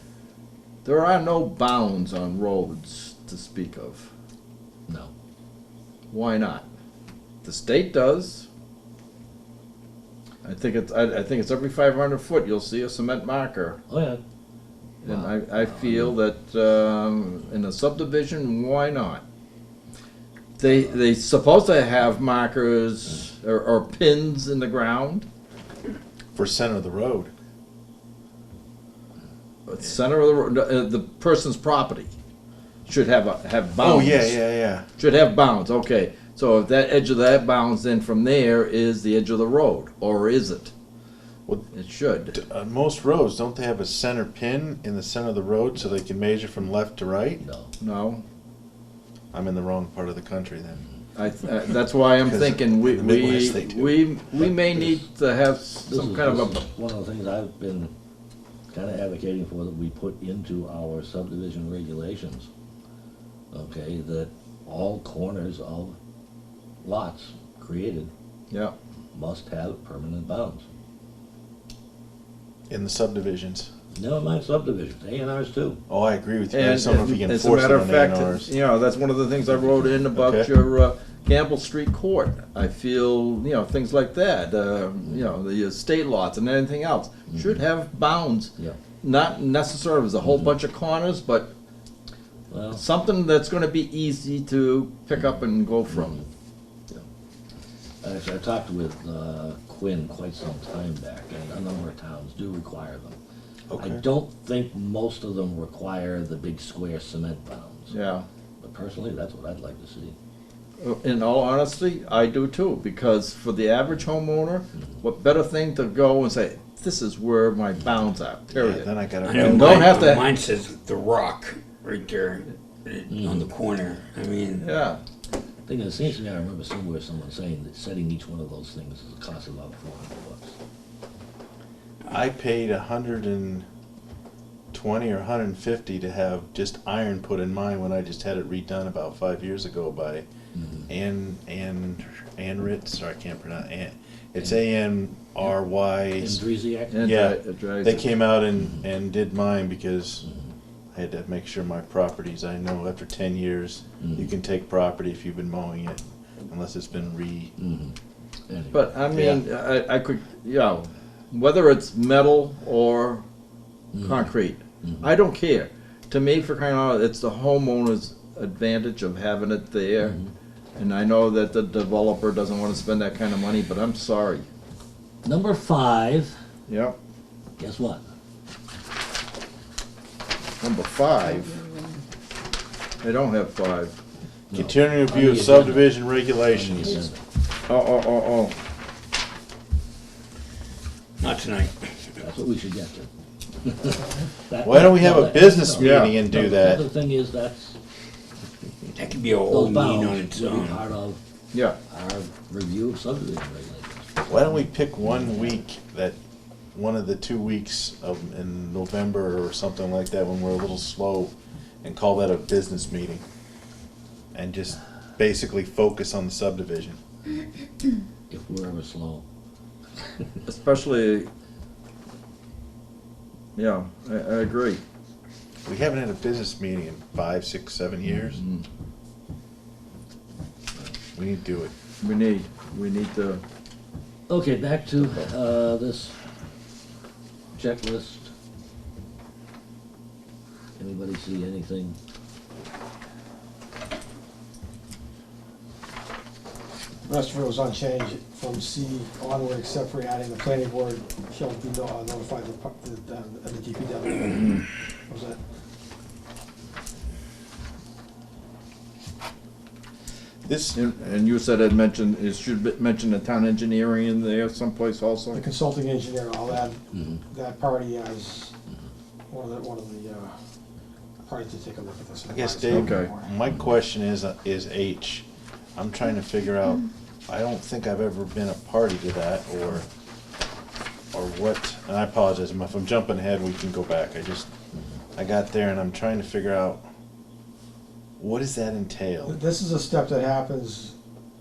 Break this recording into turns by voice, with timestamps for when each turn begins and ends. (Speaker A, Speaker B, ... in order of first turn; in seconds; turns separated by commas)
Speaker A: 0.8-4.1, Speaker B: 4.9-5.1, Speaker A: 6.1-6.7, Speaker A: 7.4-8.5, Speaker A: 10.4-13.8, Speaker B: 13.9-14.2, Speaker B: 15.0-16.1, Speaker A: 15.0-19.2, Speaker A: 20.6-25.2, Speaker C: 26.4-27.3, Speaker A: 29.7-32.1, Speaker A: 32.9-34.4, Speaker C: 33.8-34.9, Speaker A: 35.0-40.7, Speaker A: 41.7-42.3, Speaker C: 42.3-47.4, Speaker B: 47.4-47.7, Speaker A: 47.8-48.2, Speaker C: 49.3-50.8, Speaker A: 51.1-56.6, Speaker C: 52.2-54.6, Speaker B: 55.9-57.9, Speaker B: 58.7-62.5, Speaker B: 63.5-66.0, Speaker B: 66.8-68.1, Speaker B: 69.1-70.6, Speaker C: 72.7-73.7, Speaker B: 73.9-75.8, Speaker C: 75.9-78.5, Speaker A: 76.5-91.5, Speaker C: 80.1-80.5, Speaker B: 87.3-87.6, Speaker B: 92.5-92.8, Speaker A: 92.7-96.2, Speaker B: 95.9-96.2, Speaker B: 98.0-103.2, Speaker C: 103.7-104.0, Speaker B: 103.8-107.9, Speaker A: 107.9-108.2, Speaker B: 108.6-110.2, Speaker A: 110.8-120.3, Speaker C: 118.5-120.0, Speaker D: 119.2-124.6, Speaker B: 123.1-123.5, Speaker A: 124.6-125.0, Speaker B: 125.7-130.5, Speaker C: 132.1-133.6, Speaker C: 134.7-140.2, Speaker B: 140.6-140.9, Speaker C: 140.9-146.4, Speaker B: 146.2-147.1, Speaker A: 146.9-148.1, Speaker C: 147.0-150.2, Speaker B: 150.2-150.5, Speaker C: 150.9-157.5, Speaker B: 154.0-154.3, Speaker B: 157.6-157.9, Speaker B: 158.5-159.4, Speaker A: 158.7-163.2, Speaker C: 159.1-159.4, Speaker B: 163.9-164.3, Speaker A: 164.0-170.2, Speaker B: 164.8-165.1, Speaker B: 170.0-170.3, Speaker A: 170.8-174.5, Speaker B: 175.2-176.3, Speaker A: 176.7-176.9, Speaker B: 177.6-178.0, Speaker A: 180.6-181.6, Speaker A: 183.0-183.9, Speaker B: 184.5-187.2, Speaker C: 184.5-187.0, Speaker A: 187.7-188.5, Speaker D: 191.2-192.0, Speaker B: 192.2-193.1, Speaker B: 193.6-197.8, Speaker C: 194.6-196.8, Speaker A: 195.8-196.2, Speaker D: 198.9-200.8, Speaker B: 199.5-201.2, Speaker B: 201.9-204.1, Speaker C: 204.3-206.2, Speaker B: 205.0-205.5, Speaker C: 206.7-211.3, Speaker C: 211.8-213.2, Speaker C: 214.3-217.0, Speaker B: 218.3-219.2, Speaker B: 219.9-220.3, Speaker A: 220.4-221.3, Speaker A: 223.6-224.8, Speaker C: 225.6-228.4, Speaker A: 228.4-228.7, Speaker C: 231.1-231.7, Speaker A: 232.0-233.4, Speaker B: 234.3-236.2, Speaker A: 235.0-235.3, Speaker B: 237.5-238.3, Speaker B: 240.8-242.0, Speaker E: 247.0-255.4, Speaker C: 260.4-260.8, Speaker A: 260.7-265.4, Speaker E: 265.3-268.5, Speaker E: 269.3-270.3, Speaker E: 271.2-273.3, Speaker C: 272.3-279.9, Speaker A: 272.7-273.1, Speaker C: 281.1-284.5, Speaker C: 285.1-286.8, Speaker C: 288.2-289.4, Speaker E: 289.2-290.9